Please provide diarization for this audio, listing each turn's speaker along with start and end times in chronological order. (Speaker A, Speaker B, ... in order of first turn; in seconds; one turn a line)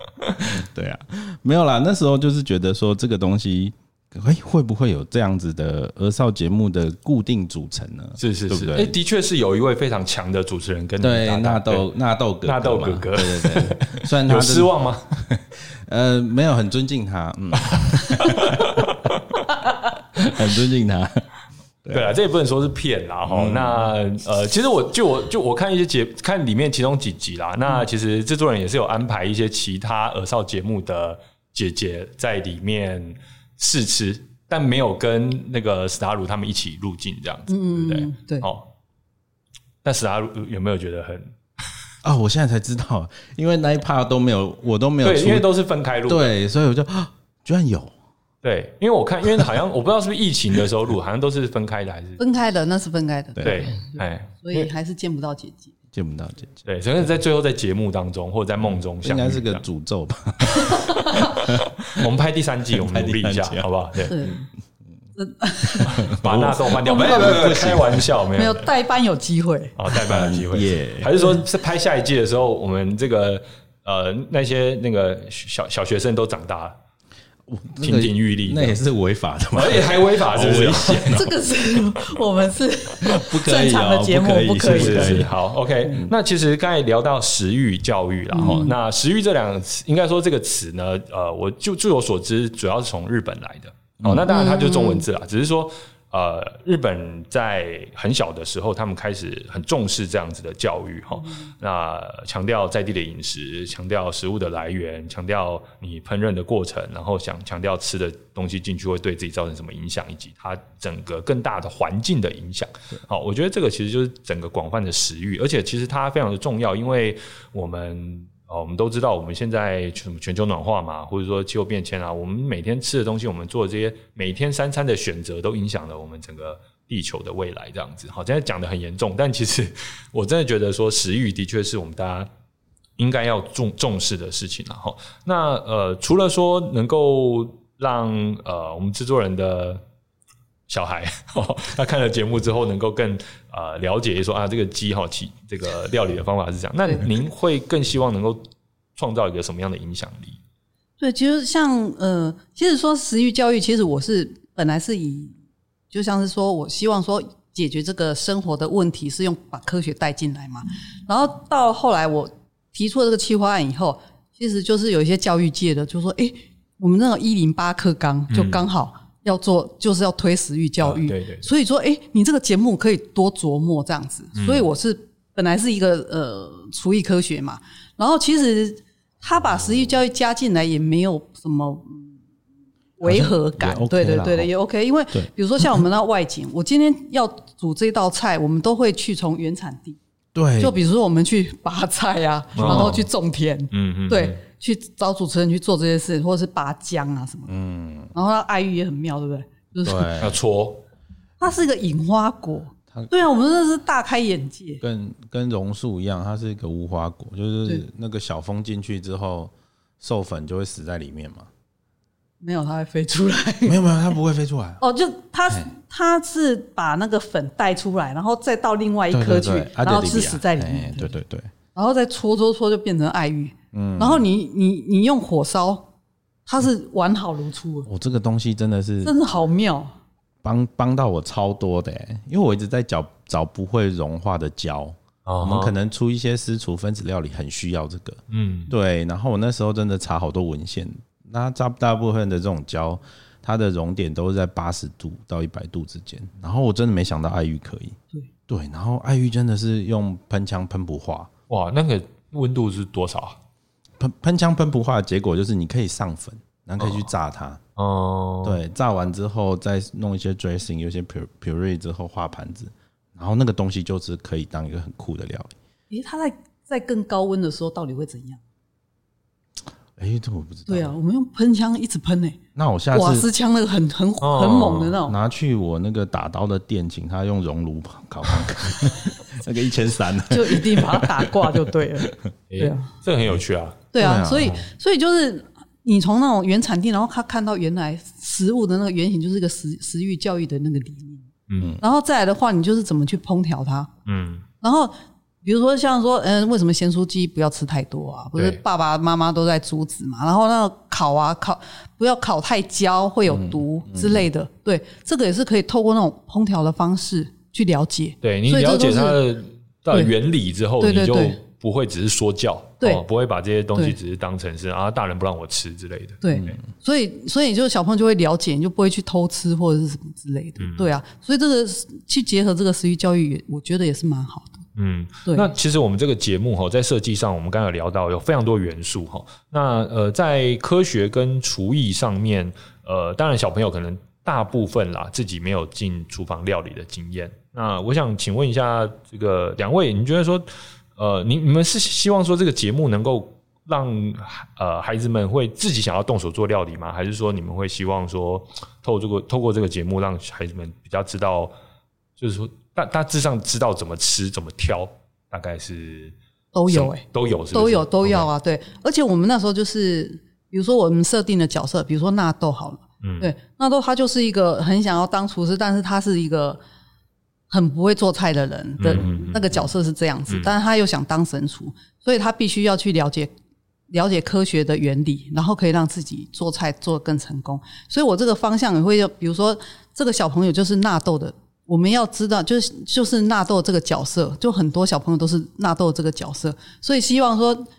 Speaker A: 0.4-8.9
Speaker B: 8.2-11.9
Speaker A: 11.0-18.9
Speaker B: 12.4-15.0
Speaker B: 18.2-19.2
Speaker A: 20.1-21.3
Speaker A: 21.8-22.2
Speaker B: 21.9-38.7
Speaker A: 23.2-23.9
Speaker C: 37.5-38.5
Speaker B: 39.8-41.3
Speaker A: 42.0-45.5
Speaker B: 45.0-46.3
Speaker A: 46.0-47.9
Speaker B: 48.4-52.2
Speaker C: 52.2-55.7
Speaker A: 53.4-53.7
Speaker B: 53.4-54.7
Speaker A: 55.9-56.6
Speaker B: 56.6-59.6
Speaker A: 59.0-62.1
Speaker B: 60.6-64.3
Speaker A: 62.7-63.7
Speaker C: 64.1-64.4
Speaker C: 65.2-66.1
Speaker A: 65.8-68.1
Speaker B: 65.9-68.7
Speaker C: 66.8-67.4
Speaker C: 68.3-69.7
Speaker B: 69.8-76.7
Speaker A: 69.9-71.1
Speaker A: 77.5-81.3
Speaker B: 77.8-78.8
Speaker B: 79.5-81.3
Speaker C: 81.1-85.3
Speaker A: 83.0-85.3
Speaker B: 84.6-132.3
Speaker C: 88.3-88.7
Speaker A: 94.0-94.3
Speaker C: 94.3-95.0
Speaker B: 133.0-139.8
Speaker B: 140.7-148.4
Speaker B: 149.0-150.4
Speaker C: 151.0-155.3
Speaker C: 155.9-182.2
Speaker B: 168.3-168.7
Speaker B: 170.8-171.5
Speaker B: 174.3-174.7
Speaker C: 183.0-190.0
Speaker A: 183.0-184.5
Speaker A: 190.3-190.7
Speaker C: 190.6-197.5
Speaker B: 192.6-193.1
Speaker A: 192.6-192.9
Speaker B: 193.7-194.4
Speaker A: 197.5-198.1
Speaker C: 198.1-200.1
Speaker A: 199.8-200.3
Speaker B: 200.2-200.8
Speaker C: 201.4-204.8
Speaker A: 204.8-211.5
Speaker C: 212.4-213.8
Speaker A: 213.7-214.8
Speaker C: 214.8-221.1
Speaker A: 219.1-221.5
Speaker C: 221.7-225.9
Speaker A: 223.7-224.2
Speaker C: 226.4-227.9
Speaker A: 227.8-229.1
Speaker C: 229.0-229.9
Speaker A: 230.4-248.0
Speaker B: 235.2-235.7
Speaker B: 238.3-238.7
Speaker A: 248.5-251.3
Speaker B: 251.5-253.4
Speaker A: 254.0-257.6
Speaker B: 256.8-257.1
Speaker B: 257.8-258.6
Speaker A: 258.4-265.5
Speaker C: 265.9-268.4
Speaker A: 270.0-270.9
Speaker C: 270.7-272.4
Speaker A: 272.6-273.3
Speaker C: 272.9-275.1
Speaker B: 274.2-275.0
Speaker A: 275.1-282.1
Speaker C: 280.3-282.9
Speaker B: 282.5-283.9
Speaker C: 283.9-291.3
Speaker A: 284.0-284.6
Speaker B: 284.4-284.7
Speaker B: 291.5-291.8
Speaker C: 291.8-293.9
Speaker B: 294.1-294.4
Speaker C: 294.6-309.2
Speaker A: 303.3-304.3
Speaker B: 308.2-316.5
Speaker C: 310.8-311.4
Speaker C: 316.2-324.6
Speaker A: 316.3-316.6
Speaker B: 320.6-320.9
Speaker B: 324.8-351.5
Speaker C: 325.2-325.5
Speaker B: 352.2-356.1
Speaker C: 356.5-366.6
Speaker B: 356.7-358.3
Speaker B: 363.0-363.3
Speaker C: 367.5-373.3
Speaker B: 368.8-369.6
Speaker C: 373.9-387.6